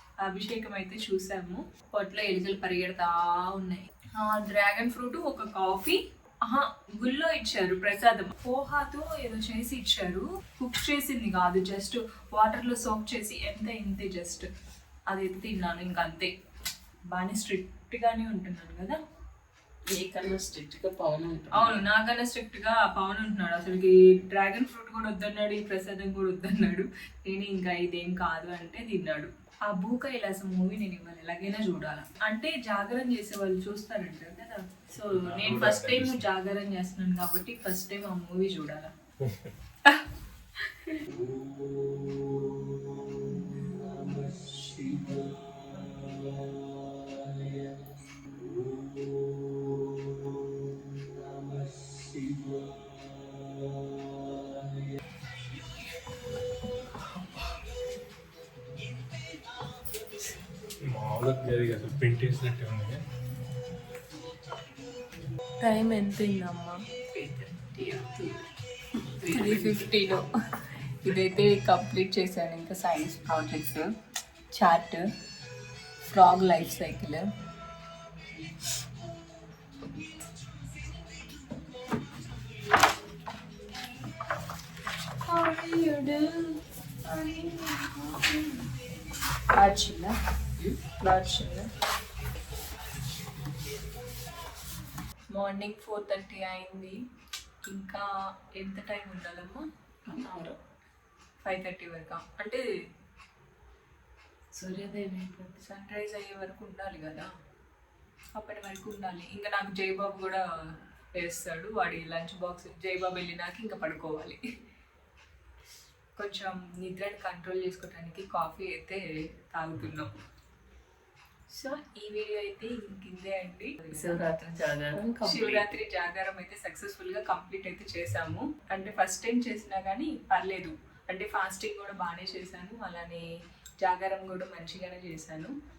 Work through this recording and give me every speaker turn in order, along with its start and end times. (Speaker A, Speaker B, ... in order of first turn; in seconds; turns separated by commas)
Speaker A: 0.2-14.5, Speaker A: 15.1-16.3, Speaker A: 17.1-19.0, Speaker B: 19.9-21.8, Speaker A: 21.5-38.9, Speaker C: 35.1-36.2, Speaker A: 40.6-41.0, Speaker C: 60.8-63.0, Speaker A: 65.6-66.8, Speaker B: 67.1-68.4, Speaker B: 68.9-70.0, Speaker A: 69.3-70.3, Speaker A: 71.0-73.9, Speaker A: 74.5-75.1, Speaker A: 76.1-77.3, Speaker A: 85.2-88.7, Speaker A: 89.5-90.1, Speaker A: 91.0-91.7, Speaker A: 95.3-97.0, Speaker A: 97.7-99.6, Speaker B: 100.1-100.6, Speaker A: 101.5-102.6, Speaker B: 104.5-105.5, Speaker A: 105.5-107.3, Speaker A: 108.3-110.4, Speaker A: 111.2-114.4, Speaker A: 116.2-120.1, Speaker A: 121.5-124.5, Speaker B: 123.9-125.6, Speaker A: 125.2-133.2, Speaker A: 133.8-135.5